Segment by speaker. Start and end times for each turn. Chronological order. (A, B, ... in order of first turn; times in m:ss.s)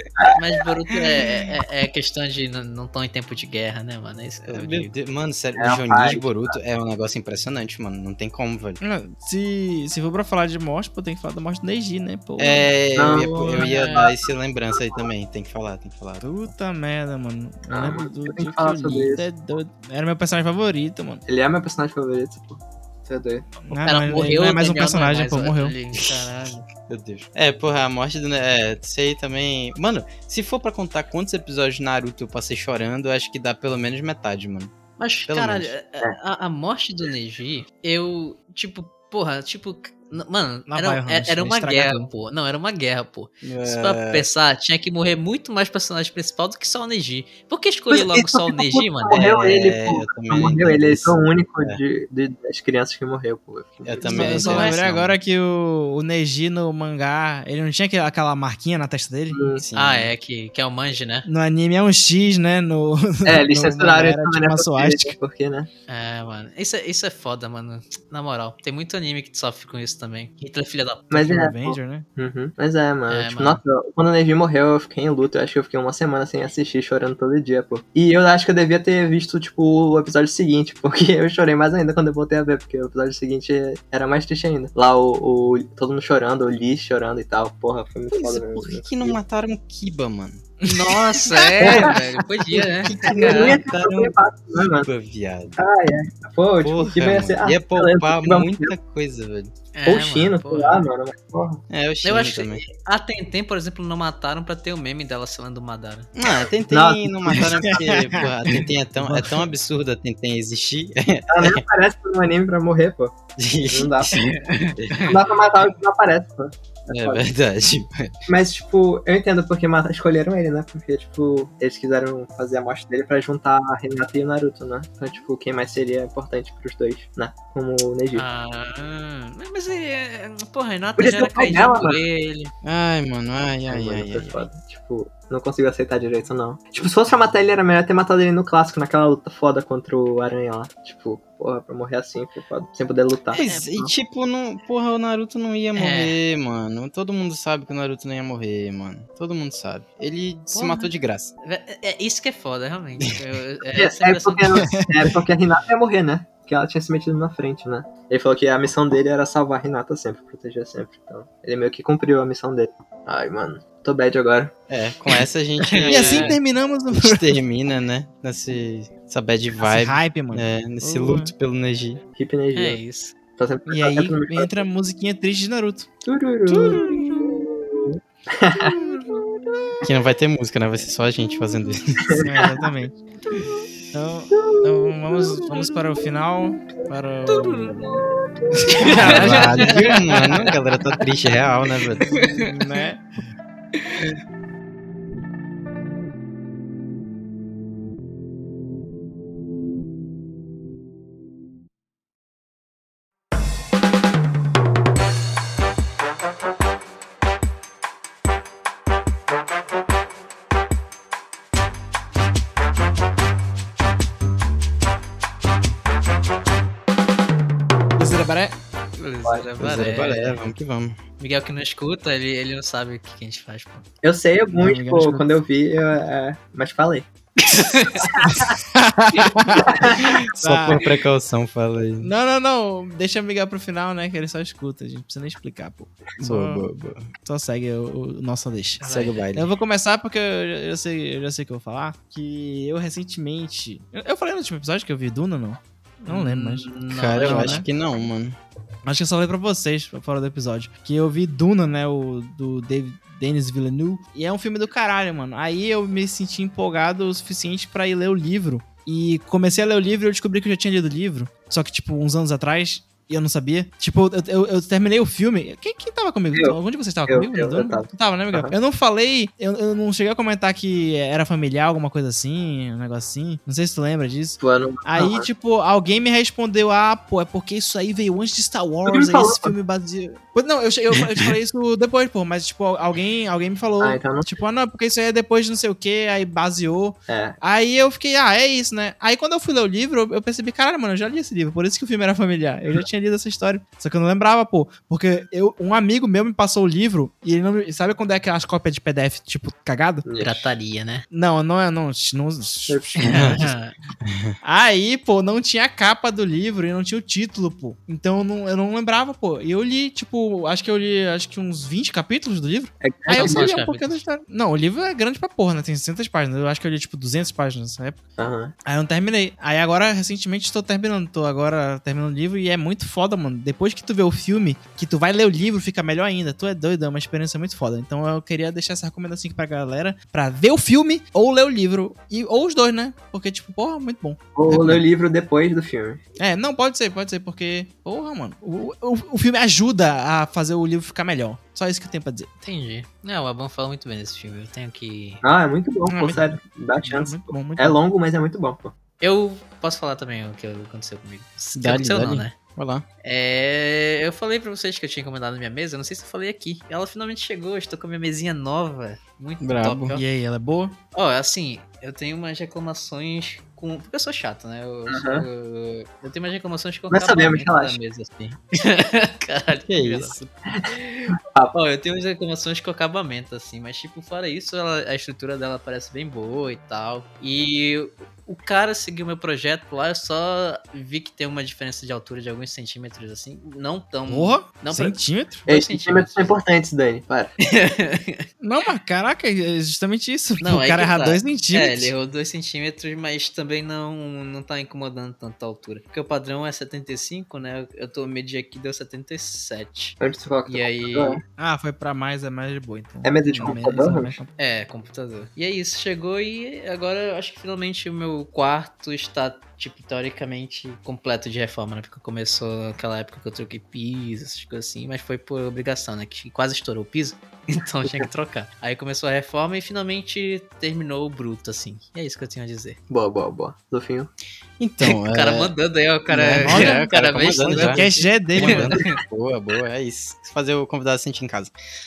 0:00.3-0:04.9 A
0:04.4-0:08.8 B
0:05.6-0:06.6 C
0:08.8-0:12.7 D
0:12.4-0:16.3 B
0:13.0-0:15.1 C
0:13.1-0:14.1 A
0:16.2-0:21.2 D
0:17.7-0:19.3 C
0:21.2-0:23.5 C
0:23.6-0:25.7 D
0:23.8-0:26.7 A
0:25.9-0:26.3 B
0:26.9-0:34.7 B
0:35.0-0:49.2 A
0:35.3-0:35.7 B
0:40.7-0:42.1 D
0:43.4-0:44.2 B
0:47.9-0:54.7 C
0:49.1-0:51.8 B
0:53.8-0:55.2 B
0:54.0-0:59.4 D
0:59.3-0:59.6 C
0:59.5-1:00.1 B
0:59.7-1:01.3 A
1:01.2-1:05.2 D
1:03.2-1:05.7 C
1:05.9-1:11.1 A
1:11.1-1:29.2 C
1:11.1-1:12.0 D
1:13.1-1:13.6 A
1:28.1-1:30.5 B
1:30.6-1:32.6 D
1:30.6-1:33.6 A
1:31.6-1:31.9 C
1:32.8-1:34.1 B
1:33.1-1:34.9 C
1:34.8-1:35.6 B
1:35.6-1:38.7 C
1:36.6-1:39.5 B
1:39.7-1:40.9 A
1:39.8-1:41.6 C
1:41.7-1:42.6 B
1:42.0-1:46.1 A
1:46.2-1:51.6 B
1:46.7-1:47.5 C
1:47.6-1:48.3 D
1:49.0-1:49.4 D
1:51.3-1:53.2 C
1:53.4-1:55.2 B
1:53.7-1:54.2 C
1:54.2-1:55.2 A
1:55.0-1:57.2 C
1:56.9-1:58.2 B
1:58.3-2:08.2 C
2:08.1-2:12.5 A
2:11.0-2:12.0 C
2:12.6-2:14.5 B
2:13.7-2:23.4 C
2:23.3-2:31.3 B
2:23.4-2:23.9 A
2:25.8-2:26.2 A
2:30.5-2:30.9 A
2:31.4-2:34.8 A
2:33.8-2:44.5 C
2:44.7-2:46.4 B
2:45.7-2:46.4 A
2:45.9-2:47.3 D
2:46.9-2:52.0 B
2:49.6-2:51.3 D
2:52.2-2:52.8 C
2:52.5-2:53.1 A
2:53.4-2:54.6 C
2:53.7-2:55.9 D
2:56.0-2:59.2 C
2:56.5-2:57.3 D
2:58.5-2:59.2 D
2:59.8-3:02.2 B
3:02.0-3:02.6 C
3:02.2-3:03.0 D
3:03.9-3:07.8 D
3:04.3-3:05.3 C
3:07.3-3:08.1 A
3:08.6-3:09.9 D
3:08.8-3:10.5 A
3:09.0-3:12.1 B
3:12.0-3:12.5 A
3:12.2-3:13.0 D
3:38.0-3:38.5 D
3:39.0-3:40.4 A
3:39.6-3:41.0 B
3:41.2-3:43.8 A
3:44.0-3:47.1 C
3:44.6-3:45.2 D
3:47.5-3:48.2 A
3:48.0-3:48.3 C
3:48.2-3:50.8 D
3:49.6-3:50.1 C
3:49.8-3:52.1 B
3:52.0-3:56.7 D
3:56.2-3:57.1 B
3:57.2-3:58.8 D
3:58.8-3:59.2 A
3:58.8-3:59.5 B
3:59.3-4:07.6 D
4:06.1-4:07.6 A
4:06.9-4:08.4 B
4:08.8-5:00.0 D
4:26.3-4:28.5 C
4:34.4-4:35.3 C
4:38.8-4:39.5 C
4:43.8-4:44.3 C
4:47.1-4:47.4 C
5:00.0-5:00.5 C
5:00.2-5:01.0 A
5:01.1-5:03.5 D
5:02.7-5:03.0 C
5:03.0-5:03.7 A
5:03.1-5:03.5 B
5:04.0-5:04.3 B
5:04.4-5:18.0 D
5:12.8-5:13.5 C
5:13.1-5:14.0 A
5:18.2-5:18.5 C
5:18.6-5:34.8 D
5:34.3-5:36.0 C
5:36.2-5:42.3 D
5:42.4-5:45.2 A
5:45.2-5:48.7 C
5:45.9-5:47.8 D
5:49.0-5:52.3 A
5:51.5-5:52.8 B
5:53.0-6:00.0 A
5:59.4-6:00.0 B
5:59.9-6:00.7 D
6:00.9-6:26.4 A
6:04.9-6:05.2 C
6:06.9-6:07.8 C
6:09.6-6:10.3 B
6:10.5-6:11.5 C
6:24.1-6:25.4 D
6:25.5-6:27.3 C
6:27.4-6:28.2 A
6:28.4-6:31.9 D
6:30.4-6:41.2 A
6:40.0-6:41.2 C
6:41.4-6:44.3 D
6:43.0-6:44.2 C
6:44.4-7:02.8 A
7:02.9-7:04.1 C
7:04.6-7:05.5 B
7:04.8-7:09.0 A
7:06.1-7:11.5 B
7:06.4-7:06.8 D
7:07.5-7:08.7 D